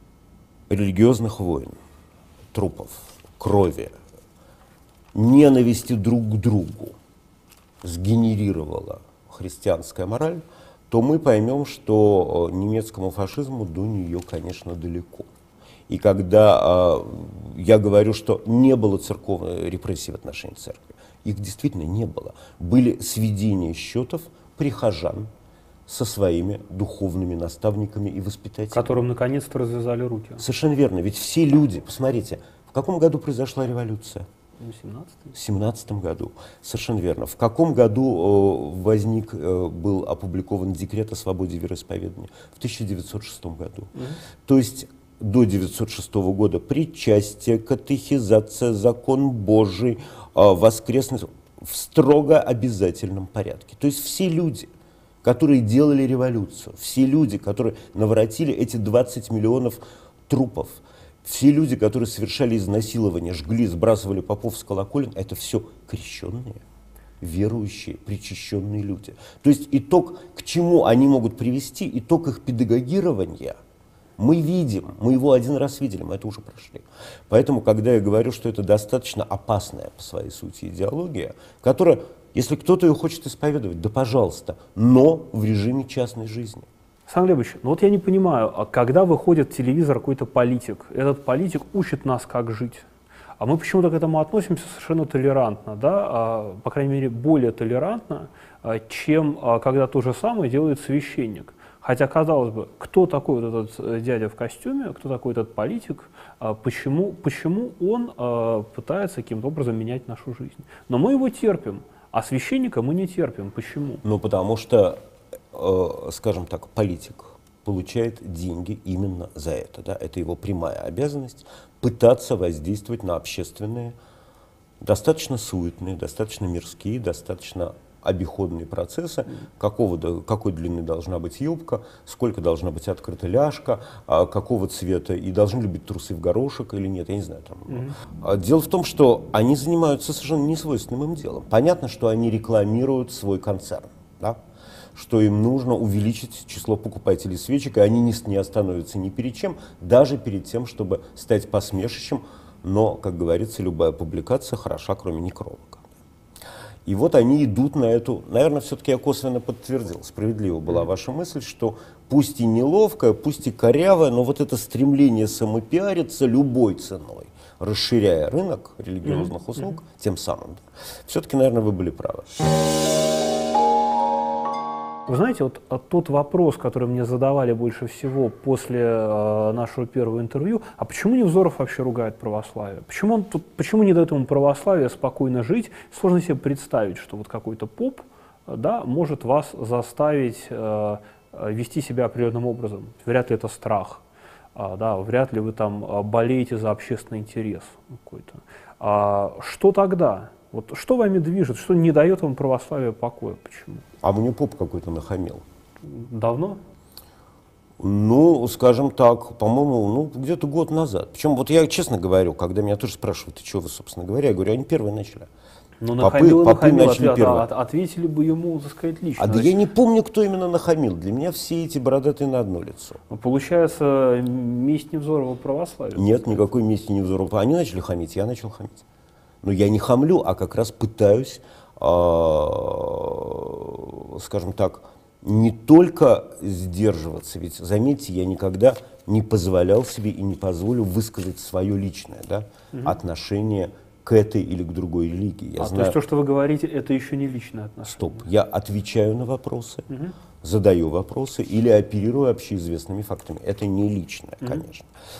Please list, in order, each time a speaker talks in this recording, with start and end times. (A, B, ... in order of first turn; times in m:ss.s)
0:00.7-0:01.7 A
0:02.5-0:03.9 A
0:05.1-0:07.0 A
0:07.8-0:15.3 A
0:15.9-0:25.3 A
0:25.9-0:28.9 A
0:28.7-0:30.4 B
0:30.4-0:34.2 A
0:34.6-0:35.3 B
0:35.3-0:43.9 A
0:43.9-0:44.2 B
0:44.4-0:54.7 A
0:55.2-1:06.6 A
1:07.2-1:13.6 A
1:14.2-1:26.7 A
1:27.1-1:32.8 B
1:33.4-1:54.0 B
1:54.0-1:55.0 A
1:55.5-2:03.9 A
2:04.8-2:24.4 A
2:17.7-2:18.0 B
2:24.9-2:35.9 A
2:36.8-2:52.3 A
2:49.0-2:49.7 B
2:55.1-3:14.0 B
3:14.5-3:23.8 B
3:24.0-3:25.4 A
3:25.8-3:26.6 B
3:27.8-3:35.3 A
3:35.8-3:39.6 B
3:36.0-3:37.5 A
3:39.2-3:43.0 A
3:43.1-3:46.4 B
3:45.9-3:48.8 A
3:49.4-4:06.0 A
4:02.7-4:03.0 B
4:05.6-4:08.3 B
4:07.9-4:09.8 A
4:09.9-4:10.2 B
4:10.4-4:14.9 A